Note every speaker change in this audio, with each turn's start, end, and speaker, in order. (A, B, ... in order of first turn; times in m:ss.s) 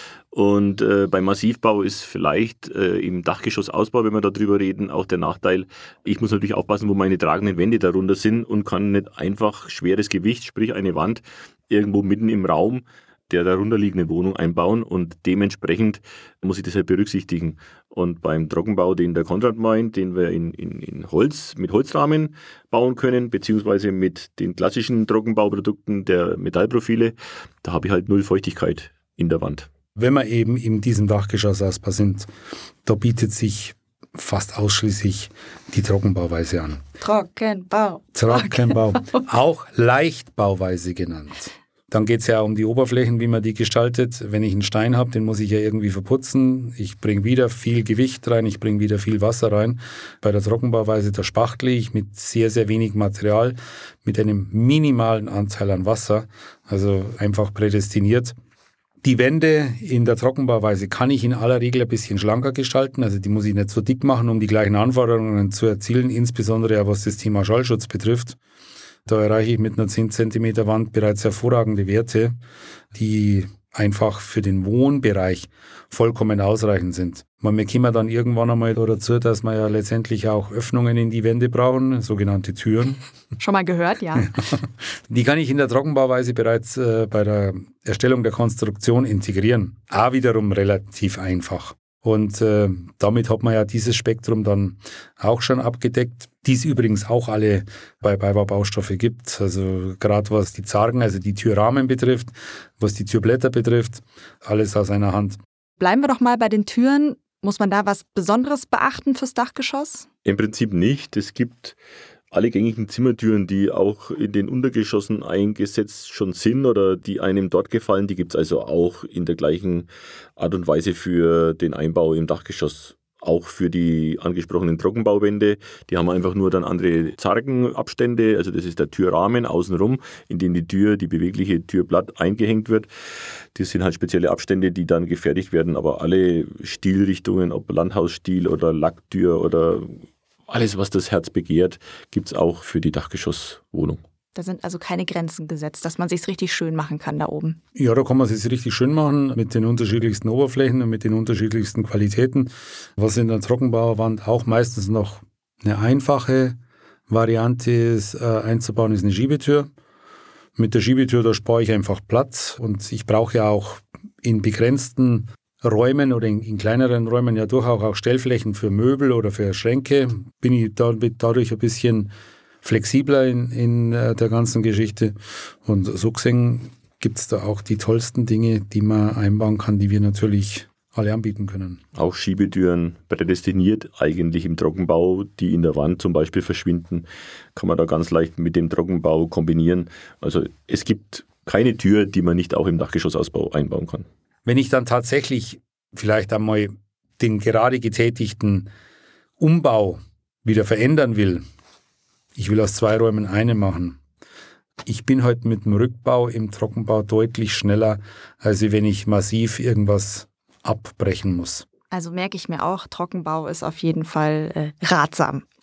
0:00.3-0:29.7 A
0:30.0-0:32.3 B
0:32.8-0:36.8 B
0:37.0-0:39.2 C
0:38.2-0:58.4 B
0:59.0-1:08.4 B
1:09.1-1:12.4 B
1:12.9-1:23.0 B
1:23.4-1:24.3 C
1:24.6-1:45.4 B
1:45.8-1:50.1 C
1:50.2-1:51.8 A
1:52.3-2:12.9 A
2:13.6-2:24.0 A
2:24.4-2:27.6 C
2:27.8-2:36.6 B
2:37.1-2:39.7 B
2:40.6-2:52.1 B
2:52.6-3:01.8 B
3:02.0-3:14.1 A
3:14.5-3:18.7 B
3:19.4-3:21.4 B
3:22.4-3:24.0 B
3:24.9-3:31.7 B
3:31.9-3:35.4 C